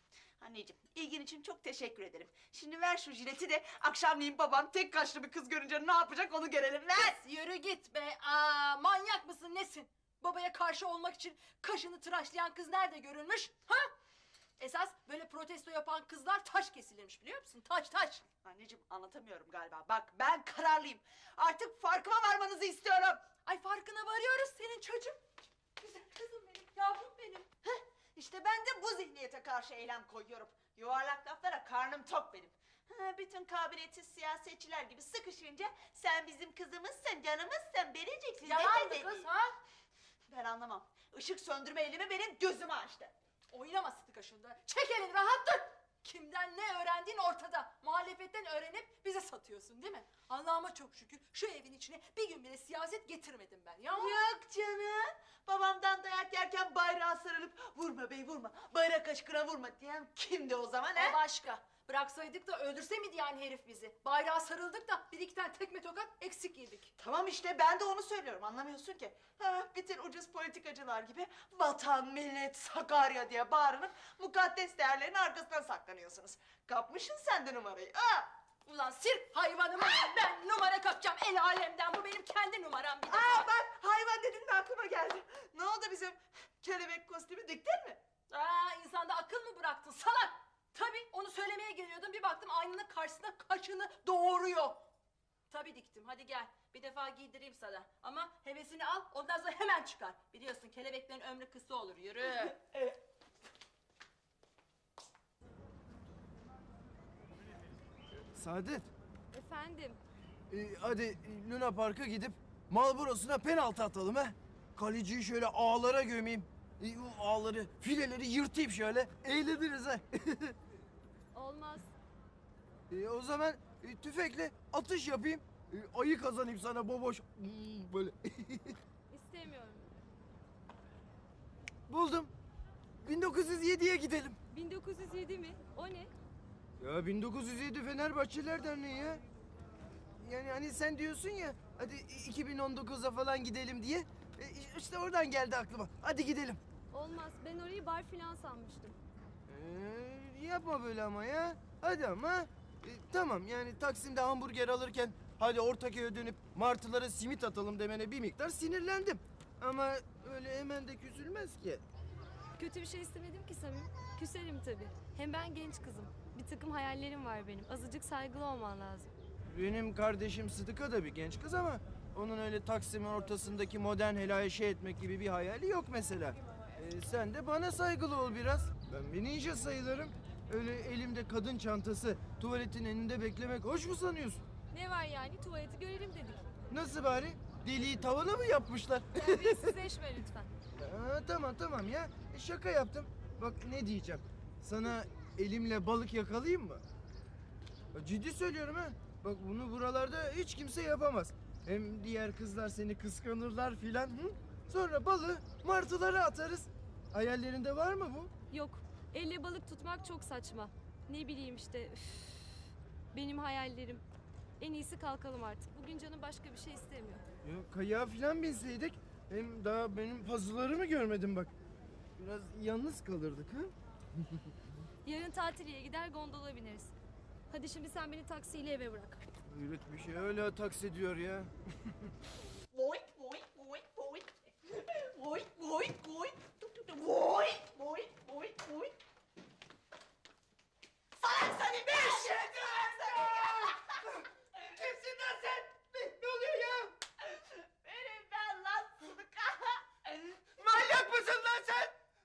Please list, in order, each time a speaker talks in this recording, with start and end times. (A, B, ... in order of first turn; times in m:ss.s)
0:00.4-0:07.2 A
0:07.0-0:13.9 B
0:14.6-0:18.2 B
0:18.4-0:23.3 A
0:23.5-0:25.2 B
0:25.8-0:27.5 B
0:27.6-0:39.3 A
0:38.4-0:39.6 B
0:40.3-0:43.1 A
0:43.5-0:54.2 B
0:53.9-1:01.2 A
1:01.0-1:06.9 B
1:07.0-1:18.3 A
1:18.6-1:23.5 B
1:23.1-1:28.0 A
1:28.3-1:34.9 B
1:35.5-1:42.6 B
1:48.3-1:48.9 C
1:49.3-1:50.0 D
1:50.5-2:00.6 C
2:01.3-2:01.9 D
2:02.9-2:08.8 C
2:09.1-2:09.9 D
2:11.9-2:12.3 C
2:13.0-2:14.4 C
2:14.5-2:16.1 D
2:16.8-2:19.2 C
2:20.2-2:26.6 C
2:26.9-2:29.0 D
2:29.5-2:41.8 C
2:42.6-2:49.1 D
2:49.5-3:04.4 C
3:04.7-3:06.4 D
3:06.7-3:09.8 C
3:09.2-3:10.5 D
3:10.8-3:16.8 C
3:17.9-3:28.3 C
3:28.5-3:34.0 D
3:34.6-3:37.2 D
3:37.4-3:41.5 C
3:42.2-3:44.5 C
3:45.0-3:46.9 D
3:47.5-3:49.3 D
3:49.5-3:52.1 C
3:52.7-3:59.0 A
4:01.2-4:04.6 A
4:02.8-4:03.8 C
4:04.6-4:06.9 C
4:07.3-4:10.9 A
4:10.6-4:11.9 C